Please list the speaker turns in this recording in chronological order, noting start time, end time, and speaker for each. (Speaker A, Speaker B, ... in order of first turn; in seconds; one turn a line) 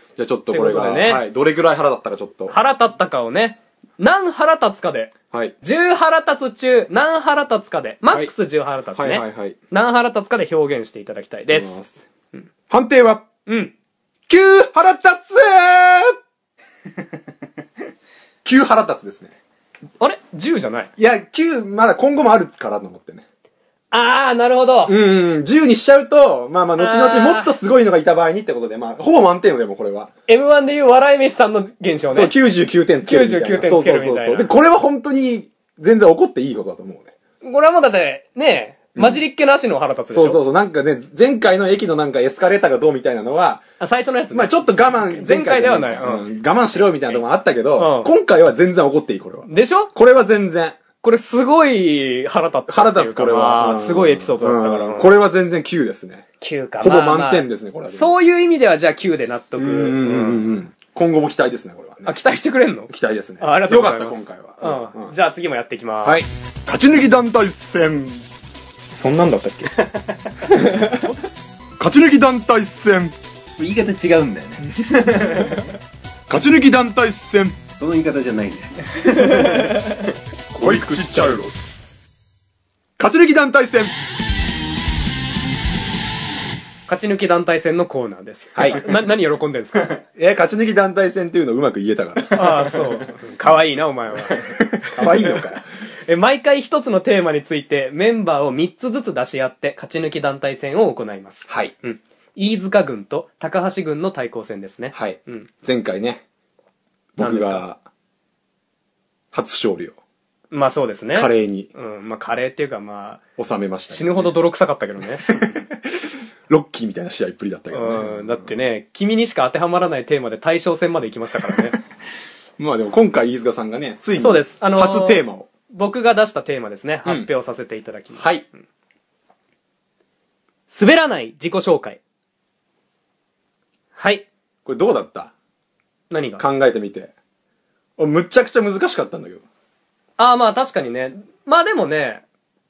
Speaker A: 0.2-2.5
Speaker B: 0.5-1.2
Speaker B: 2.5-11.8
Speaker A: 8.9-9.6
Speaker A: 11.5-12.1
Speaker A: 12.7-13.3
Speaker B: 13.4-13.7
Speaker A: 14.3-16.2
Speaker A: 18.4-19.3
Speaker B: 20.0-20.9
Speaker A: 21.0-23.2
Speaker B: 23.9-24.9
Speaker A: 24.9-30.1
Speaker B: 26.8-27.5
Speaker B: 30.3-32.3
Speaker A: 32.1-37.1
Speaker B: 33.0-34.5
Speaker B: 37.4-40.4
Speaker A: 38.9-39.2
Speaker A: 40.1-43.6
Speaker B: 43.8-46.3
Speaker A: 44.3-50.8
Speaker B: 47.8-48.1
Speaker B: 49.5-49.9
Speaker B: 51.0-55.1
Speaker A: 52.7-56.2
Speaker B: 56.4-60.5
Speaker A: 56.8-58.1
Speaker A: 59.6-62.2
Speaker B: 62.0-66.2
Speaker A: 62.9-65.1
Speaker A: 66.0-68.2
Speaker B: 69.0-69.7
Speaker B: 70.5-71.0
Speaker A: 70.6-70.9
Speaker A: 71.8-73.1
Speaker C: 73.6-75.7
Speaker A: 76.3-77.6
Speaker C: 77.8-80.1
Speaker A: 80.6-81.5
Speaker C: 80.6-81.5
Speaker B: 80.6-81.2
Speaker A: 83.0-83.9
Speaker B: 86.9-90.0
Speaker A: 88.5-88.8
Speaker A: 90.2-92.7
Speaker B: 92.3-95.4
Speaker A: 94.7-95.6
Speaker B: 96.1-105.5
Speaker A: 101.5-101.7
Speaker A: 104.9-106.2
Speaker A: 107.1-107.8
Speaker B: 107.2-107.6
Speaker A: 109.3-110.0
Speaker B: 110.5-113.2
Speaker A: 111.1-111.7
Speaker A: 113.4-114.3
Speaker B: 113.9-115.3
Speaker A: 115.3-118.5
Speaker B: 117.7-121.8
Speaker A: 122.6-125.5
Speaker B: 124.2-128.2
Speaker A: 128.1-128.4
Speaker B: 130.7-132.0
Speaker B: 133.9-134.3
Speaker A: 134.7-135.3
Speaker B: 136.1-136.4
Speaker A: 136.4-137.1
Speaker A: 138.0-139.4
Speaker B: 140.2-142.2